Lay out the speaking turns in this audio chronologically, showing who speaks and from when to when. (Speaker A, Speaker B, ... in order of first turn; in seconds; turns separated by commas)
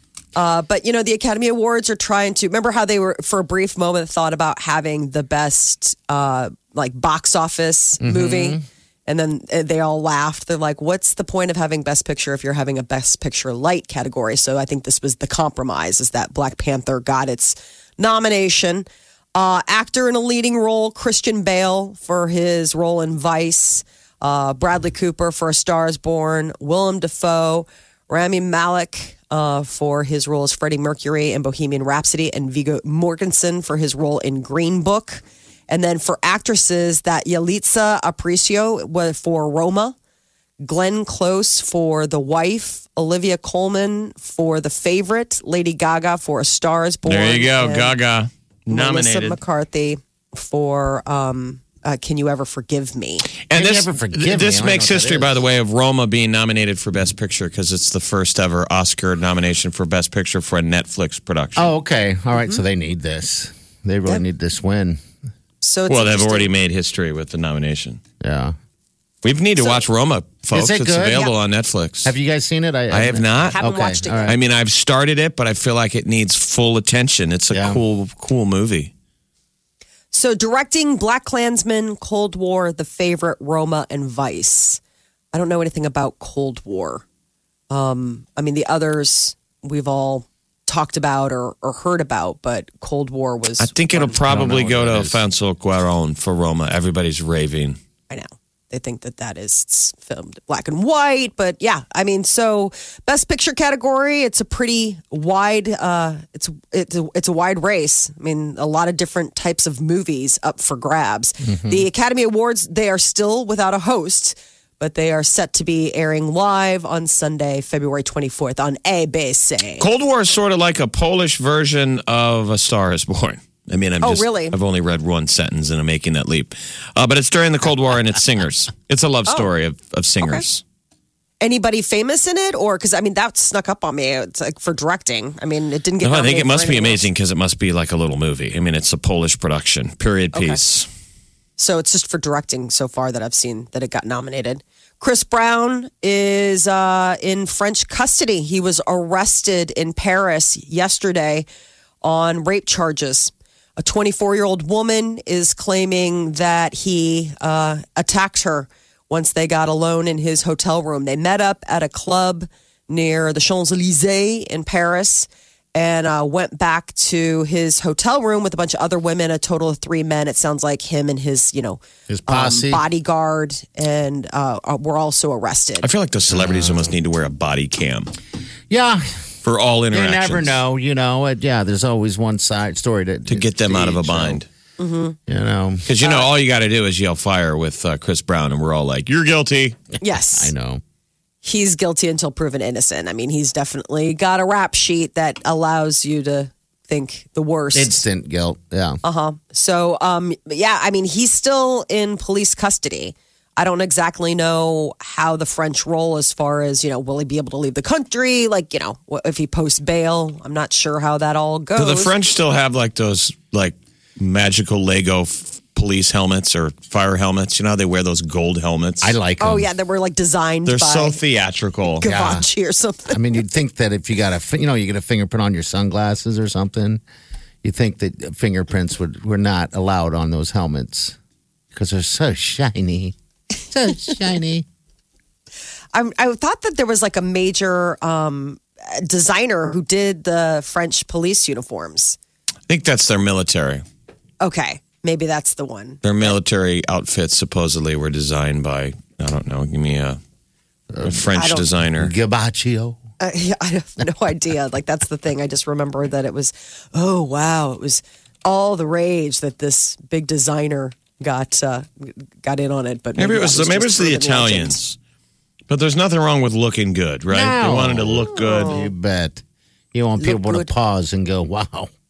Speaker A: 0.3-40.0, Speaker B: 8.0-8.6, Speaker A: 40.6-48.0, Speaker C: 47.1-49.4, Speaker A: 48.7-53.3, Speaker C: 53.4-61.7, Speaker B: 53.5-55.5, Speaker B: 61.6-65.0, Speaker A: 65.6-66.5, Speaker C: 65.9-68.0, Speaker B: 68.2-68.5, Speaker C: 69.2-72.1, Speaker B: 70.5-71.3, Speaker B: 72.0-74.4, Speaker C: 72.9-73.6, Speaker A: 73.5-74.4, Speaker C: 74.3-78.9, Speaker B: 77.5-77.8, Speaker A: 80.1-84.8, Speaker A: 85.3-87.0, Speaker A: 87.7-94.2, Speaker C: 93.6-97.8, Speaker B: 94.2-95.2, Speaker A: 98.1-119.9, Speaker B: 111.5-111.9, Speaker C: 119.8-130.6, Speaker A: 124.0-124.6, Speaker A: 131.4-137.0, Speaker C: 136.0-140.9, Speaker A: 140.3-140.6, Speaker A: 141.6-151.5, Speaker A: 152.0-175.9, Speaker B: 172.1-172.8, Speaker C: 175.8-178.1, Speaker B: 176.3-176.9, Speaker B: 178.7-179.2, Speaker C: 179.4-180.6, Speaker B: 179.9-184.4, Speaker C: 183.3-184.5, Speaker A: 184.8-185.2, Speaker B: 185.3-185.9, Speaker C: 185.9-189.8, Speaker A: 186.0-186.3, Speaker A: 190.0-190.5, Speaker B: 190.1-190.8, Speaker A: 191.4-198.0, Speaker B: 197.7-199.0, Speaker A: 199.0-212.1, Speaker C: 211.8-219.2, Speaker B: 219.0-219.7, Speaker A: 219.4-221.2, Speaker C: 220.7-222.1, Speaker A: 222.0-223.3, Speaker B: 222.0-222.5, Speaker B: 223.1-227.0, Speaker B: 227.6-231.2, Speaker B: 231.7-233.2, Speaker B: 233.7-234.7, Speaker A: 235.9-242.2, Speaker C: 242.7-243.8, Speaker A: 244.4-246.3, Speaker C: 246.0-250.2, Speaker B: 250.9-251.3, Speaker C: 251.0-252.1, Speaker A: 251.3-251.7, Speaker B: 252.0-253.0, Speaker A: 253.2-264.8, Speaker C: 263.2-265.0, Speaker C: 265.7-268.8, Speaker B: 267.3-271.9, Speaker A: 268.4-268.9, Speaker A: 270.2-270.7